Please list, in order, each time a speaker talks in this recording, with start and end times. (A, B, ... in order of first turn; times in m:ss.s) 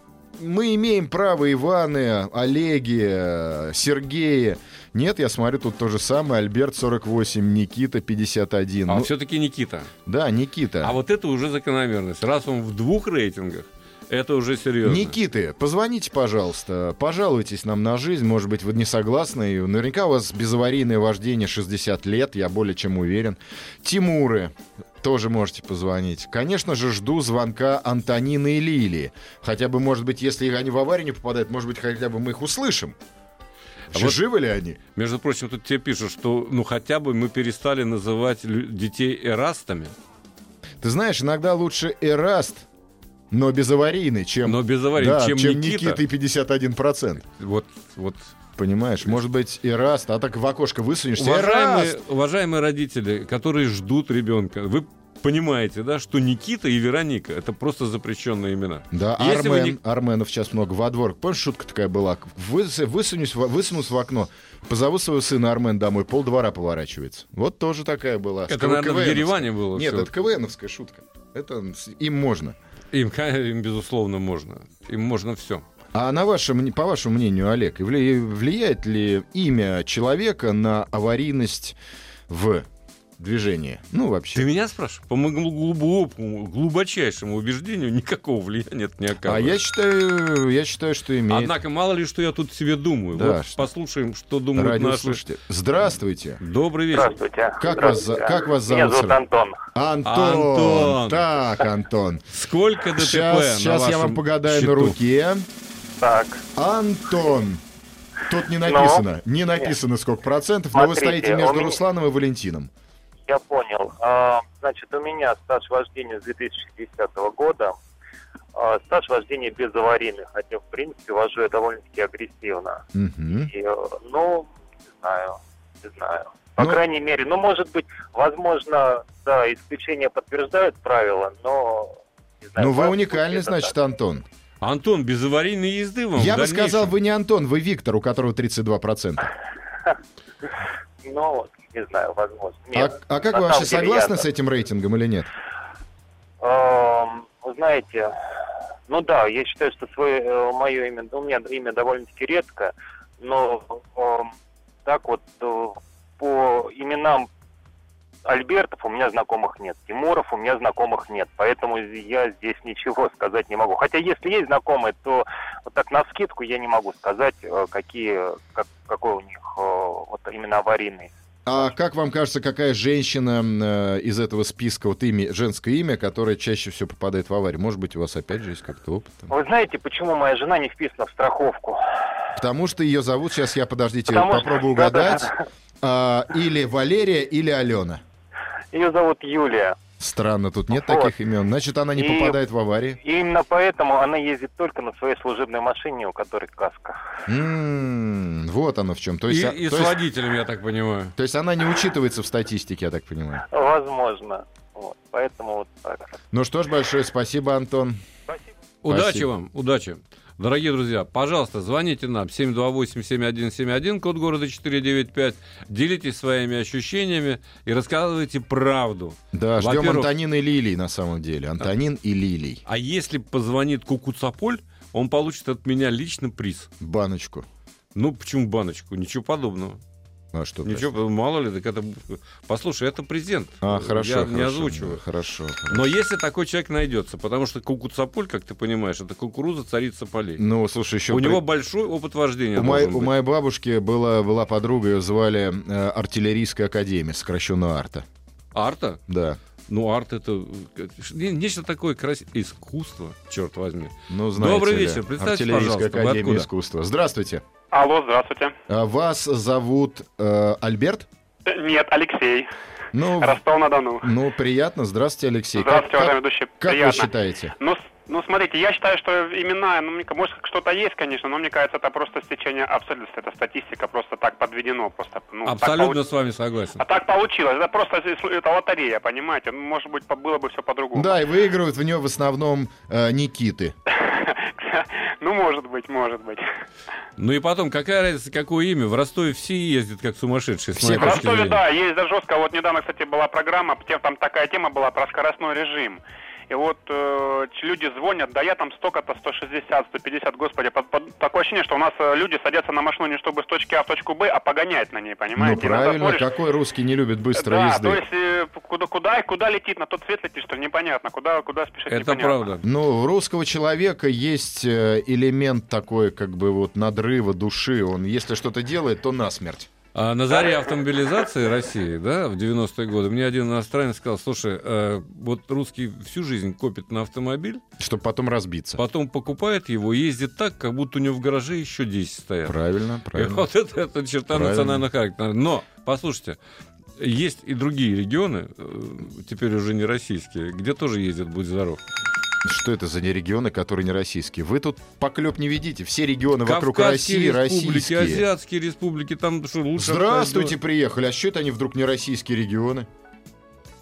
0:00.4-0:09.1 A
0:08.9-0:09.9 B
0:10.1-0:11.0 A
0:10.8-0:15.2 B
0:14.8-0:33.0 A
0:33.9-0:34.8 A
0:33.9-0:34.2 B
0:35.0-0:40.0 B
0:40.8-0:42.7 A
0:43.3-0:47.2 A
0:44.4-0:46.0 B
0:47.4-0:48.4 B
0:48.6-0:52.0 A
0:51.2-0:59.8 B
0:58.9-1:12.6 A
1:08.5-1:10.1 B
1:12.9-1:15.6 B
1:15.9-1:21.8 A
1:22.3-1:22.7 A
1:23.2-1:24.5 A
1:24.4-1:29.6 B
1:29.2-1:31.6 A
1:31.3-1:35.2 B
1:33.2-1:33.6 A
1:34.6-1:36.4 A
1:36.4-1:37.2 B
1:36.9-1:39.6 C
1:37.6-1:39.2 A
1:39.7-1:42.2 A
1:40.0-1:41.2 B
1:42.3-1:45.0 B
1:43.0-1:45.5 A
1:46.0-1:46.4 C
1:46.6-1:47.6 A
1:48.3-1:52.7 A
1:48.6-1:49.0 C
1:50.7-1:51.8 C
1:53.3-1:57.8 C
1:58.6-2:02.8 C
2:02.9-2:03.5 A
2:03.4-2:13.7 C
2:12.6-2:14.3 A
2:14.6-2:16.9 B
2:16.2-2:19.3 A
2:21.0-2:24.2 C
2:22.7-2:25.3 A
2:26.4-2:28.1 C
2:28.9-2:34.3 C
2:34.8-2:37.3 C
2:38.2-2:51.7 C
2:51.5-2:59.3 A
2:59.3-3:01.8 C
3:02.4-3:05.3 A
3:04.1-3:05.4 C
3:05.8-3:08.0 A
3:08.7-3:09.8 C
3:10.0-3:13.0 A
3:10.7-3:11.1 C
3:12.0-3:12.4 C
3:13.0-3:17.0 C
3:17.3-3:20.0 A
3:19.3-3:21.1 B
3:21.2-3:23.4 A
3:23.5-3:26.2 C
3:26.3-3:28.0 A
3:28.8-3:40.1 B
3:28.9-3:29.3 A
3:39.3-3:42.6 A
3:42.7-3:46.7 B
3:46.8-3:47.5 A
3:48.0-3:49.8 B
3:50.3-3:50.9 A
3:50.6-3:55.0 B
3:53.6-3:55.9 A
3:55.7-4:00.4 B
4:00.4-4:01.4 A
4:01.1-4:03.1 B
4:02.6-4:08.0 A
4:08.5-4:09.0 B
4:09.1-4:09.4 A
4:09.7-4:16.5 B
4:14.1-4:17.4 A
4:17.7-4:18.6 D
4:18.7-4:21.1 A
4:21.5-4:22.5 D
4:22.9-4:23.4 A
4:23.2-4:24.1 D
4:24.0-4:27.5 A
4:25.6-4:36.0 D
4:35.4-4:36.8 B
4:36.8-4:41.2 D
4:41.0-4:43.7 A
4:43.9-4:46.4 D
4:47.2-4:51.6 B
4:50.8-4:51.3 A
4:51.0-5:06.3 D
5:05.4-5:08.0 A
5:07.4-5:12.4 D
5:11.9-5:12.6 B
5:12.6-5:19.7 A
5:19.9-5:27.6 B
5:27.8-5:28.8 A
5:28.8-5:32.6 B
5:32.5-5:33.5 A
5:33.1-5:36.4 B
5:34.3-5:34.8 A
5:37.0-5:41.8 B
5:42.4-5:48.2 A
5:46.4-5:50.6 B
5:49.8-5:52.9 A